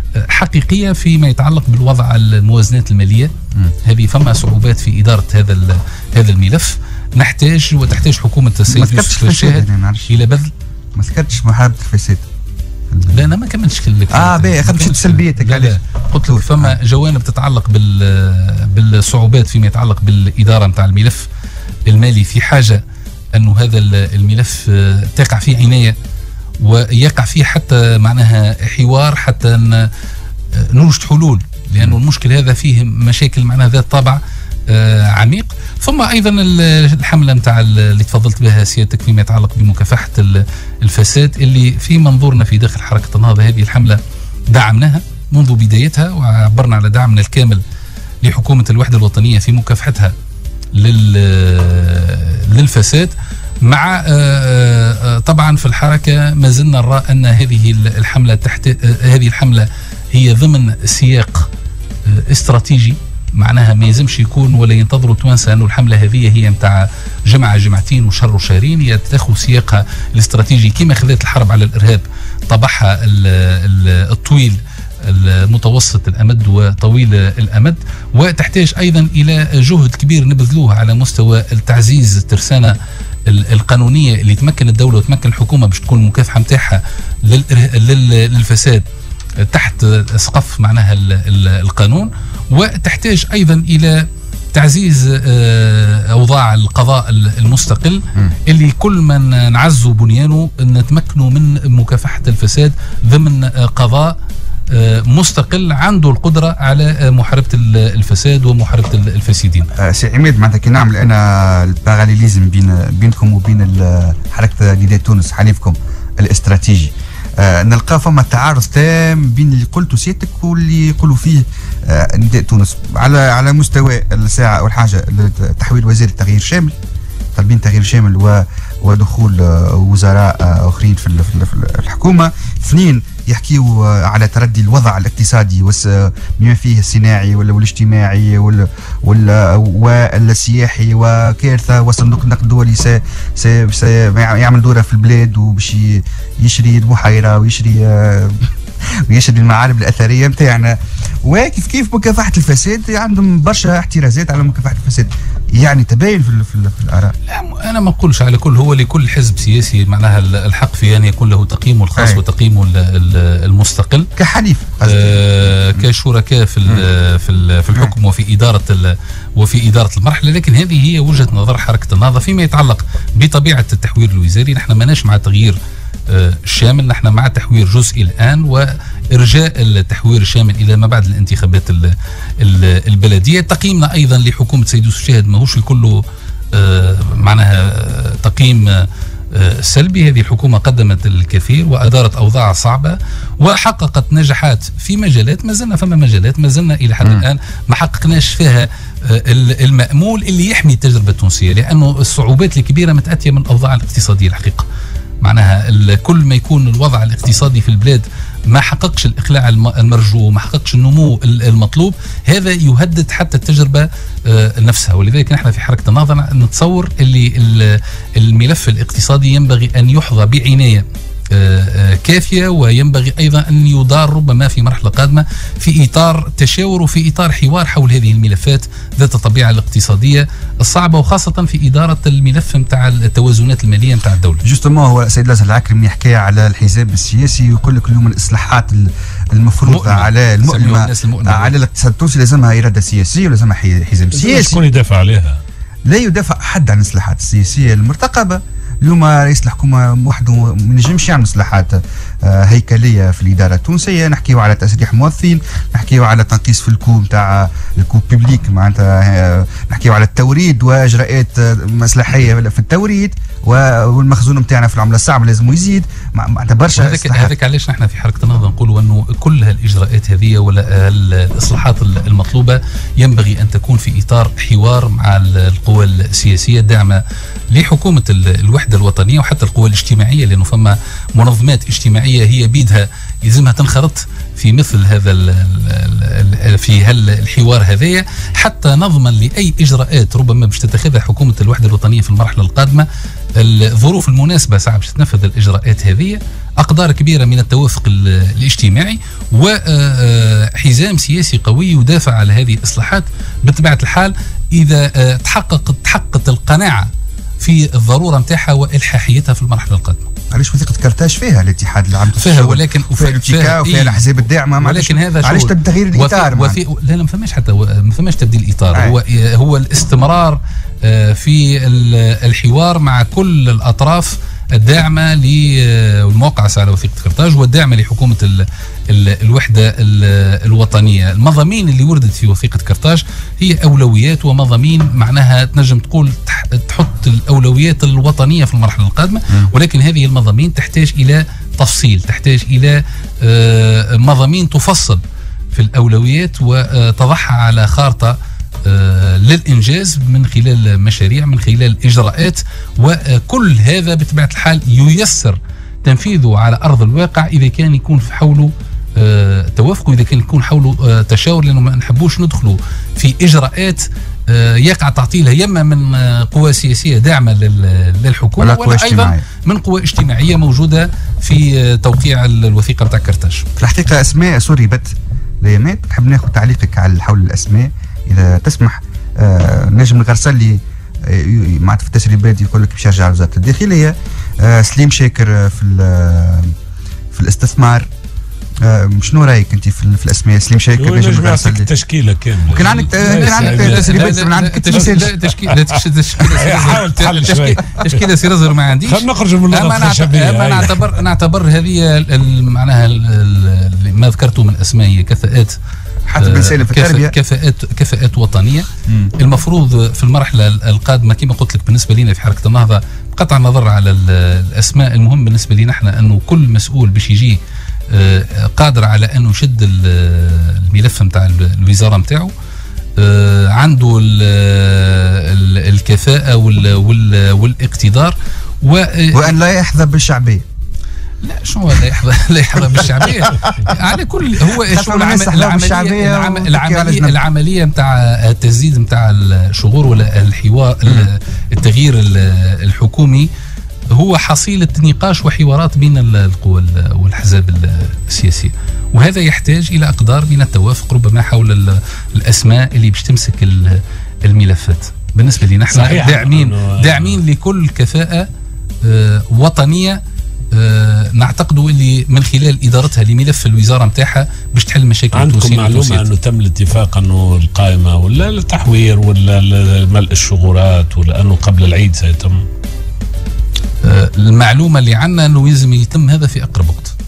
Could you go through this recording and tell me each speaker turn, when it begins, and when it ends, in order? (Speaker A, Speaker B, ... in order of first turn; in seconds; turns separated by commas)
Speaker A: 0.1-3.3, Speaker A: 3.8-10.5, Speaker B: 8.7-10.1, Speaker B: 10.9-12.2, Speaker B: 12.9-13.3, Speaker A: 13.1-21.3, Speaker B: 14.1-16.8, Speaker A: 21.9-22.8, Speaker A: 23.3-25.9, Speaker A: 26.6-29.9, Speaker A: 30.5-47.6, Speaker A: 48.2-50.1, Speaker A: 50.7-61.5, Speaker A: 62.0-82.8, Speaker A: 83.3-88.8, Speaker A: 89.4-104.2, Speaker A: 104.7-109.7, Speaker B: 109.8-126.7, Speaker B: 127.3-148.5, Speaker B: 149.1-157.1, Speaker A: 157.3-164.1, Speaker B: 162.0-162.2, Speaker B: 164.2-165.8, Speaker A: 164.8-186.0, Speaker A: 186.5-204.6, Speaker A: 205.2-234.4, Speaker B: 234.4-244.6, Speaker A: 239.6-241.5, Speaker C: 244.1-245.4, Speaker B: 245.9-267.3, Speaker A: 266.7-310.1, Speaker B: 310.3-316.6, Speaker A: 312.2-314.1, Speaker A: 314.6-345.0, Speaker B: 318.7-319.0, Speaker A: 345.5-373.4, Speaker B: 368.4-369.2, Speaker B: 373.6-386.5, Speaker B: 387.1-387.9, Speaker B: 388.6-391.7, Speaker C: 390.8-398.1, Speaker B: 392.5-395.1, Speaker A: 393.0-405.6, Speaker C: 398.8-400.8, Speaker B: 406.1-407.1, Speaker A: 406.2-417.4, Speaker A: 417.9-422.3, Speaker A: 423.0-429.4, Speaker B: 429.1-430.4, Speaker A: 431.2-443.3, Speaker B: 433.3-433.7, Speaker B: 434.5-437.2, Speaker A: 443.9-458.3, Speaker C: 455.7-457.2, Speaker A: 458.8-460.0, Speaker A: 460.5-466.1, Speaker C: 465.1-472.4, Speaker A: 473.8-476.9